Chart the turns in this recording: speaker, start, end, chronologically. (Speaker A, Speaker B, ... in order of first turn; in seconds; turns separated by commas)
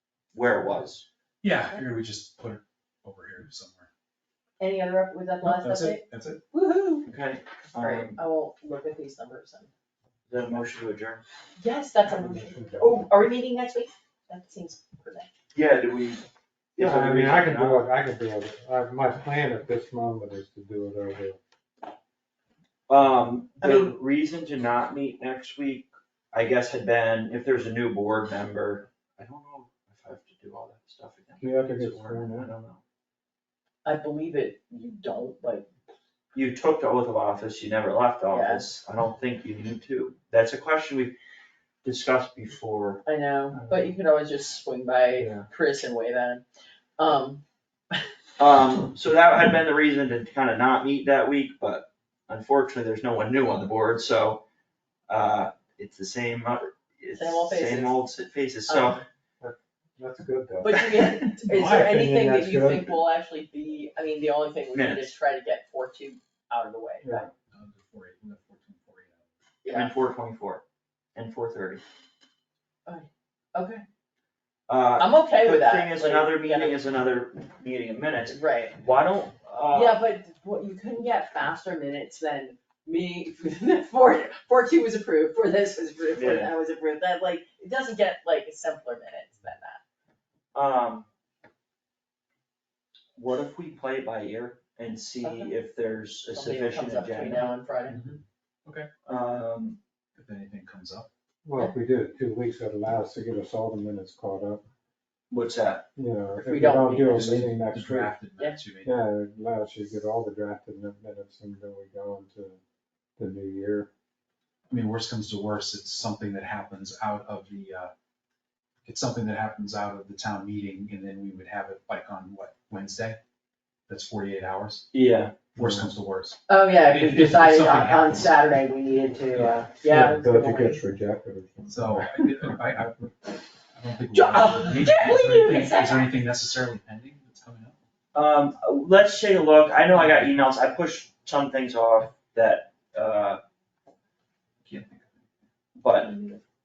Speaker A: 0.3-1.0, Speaker B: 1.4-3.9, Speaker C: 4.6-7.1, Speaker B: 5.4-6.4, Speaker A: 7.0-8.2, Speaker C: 7.8-9.7, Speaker A: 10.3-11.2, Speaker C: 11.6-15.3, Speaker D: 12.1-13.1, Speaker A: 15.5-16.2, Speaker A: 16.8-17.9, Speaker D: 16.8-21.4, Speaker A: 22.9-32.8, Speaker C: 23.6-23.9, Speaker D: 31.4-32.5, Speaker C: 33.8-35.7, Speaker A: 36.3-41.1, Speaker C: 38.3-38.6, Speaker A: 41.8-43.0, Speaker C: 43.0-46.4, Speaker D: 43.5-43.9, Speaker D: 45.2-45.4, Speaker C: 47.0-47.4, Speaker A: 48.4-54.4, Speaker A: 55.1-59.0, Speaker C: 57.1-58.0, Speaker C: 58.7-59.0, Speaker D: 59.4-60.8, Speaker C: 60.6-67.3, Speaker D: 61.4-63.0, Speaker A: 64.7-65.1, Speaker D: 67.0-67.3, Speaker B: 67.5-69.2, Speaker C: 69.6-69.9, Speaker A: 69.7-70.6, Speaker A: 71.1-71.8, Speaker C: 72.8-73.8, Speaker A: 74.7-80.0, Speaker C: 75.0-76.8, Speaker C: 78.3-78.8, Speaker C: 79.7-89.8, Speaker A: 86.1-86.5, Speaker A: 90.5-91.1, Speaker A: 93.2-97.5, Speaker C: 95.2-95.5, Speaker C: 96.3-98.0, Speaker B: 97.9-98.9, Speaker A: 99.0-99.8, Speaker B: 100.2-101.1, Speaker D: 101.4-104.6, Speaker A: 105.3-105.9, Speaker D: 106.0-108.1, Speaker C: 106.4-107.4, Speaker B: 107.1-109.0, Speaker D: 108.8-112.6, Speaker D: 113.2-113.9, Speaker B: 114.7-117.9, Speaker B: 118.8-123.2, Speaker B: 123.9-124.9, Speaker A: 124.9-125.5, Speaker B: 125.5-128.4, Speaker C: 126.5-130.8, Speaker B: 129.3-130.1, Speaker D: 129.8-132.1, Speaker B: 131.7-137.7, Speaker C: 134.1-136.2, Speaker A: 138.1-143.4, Speaker B: 139.9-140.3, Speaker B: 144.6-145.1, Speaker A: 145.8-146.1, Speaker C: 146.0-146.4